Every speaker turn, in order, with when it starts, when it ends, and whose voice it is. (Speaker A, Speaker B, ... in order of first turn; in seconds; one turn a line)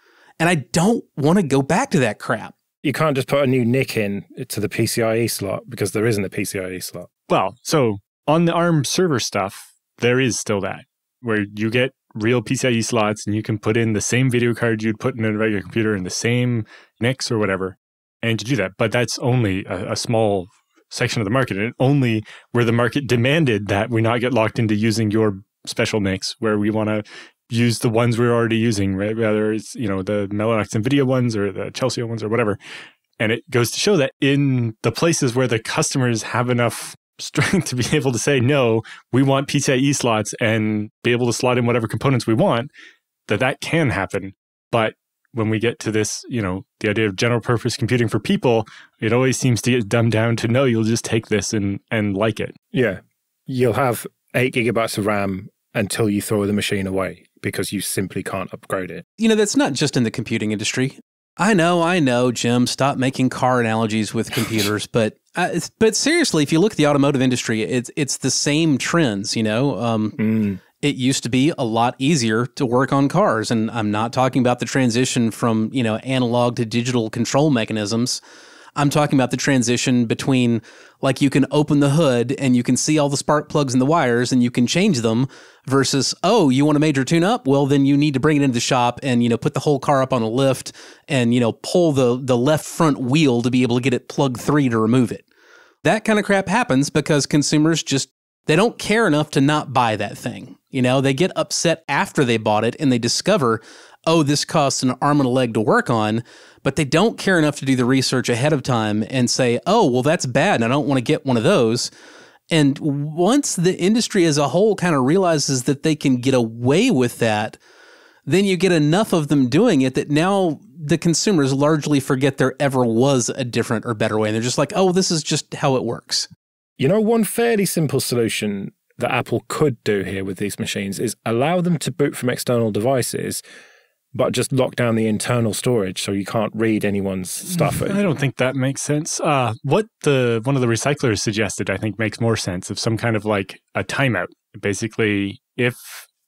Speaker A: 0.4-2.5
Speaker B: 2.8-7.1
Speaker C: 7.3-32.6
Speaker C: 33.2-42.7
Speaker C: 43.3-52.5
Speaker B: 52.7-59.0
Speaker A: 59.2-78.2
Speaker B: 70.2-70.6
Speaker A: 78.8-95.2
Speaker A: 95.8-111.9
Speaker A: 112.5-117.6
Speaker A: 118.3-126.3
Speaker B: 126.8-133.4
Speaker B: 134.1-138.0
Speaker C: 137.5-146.1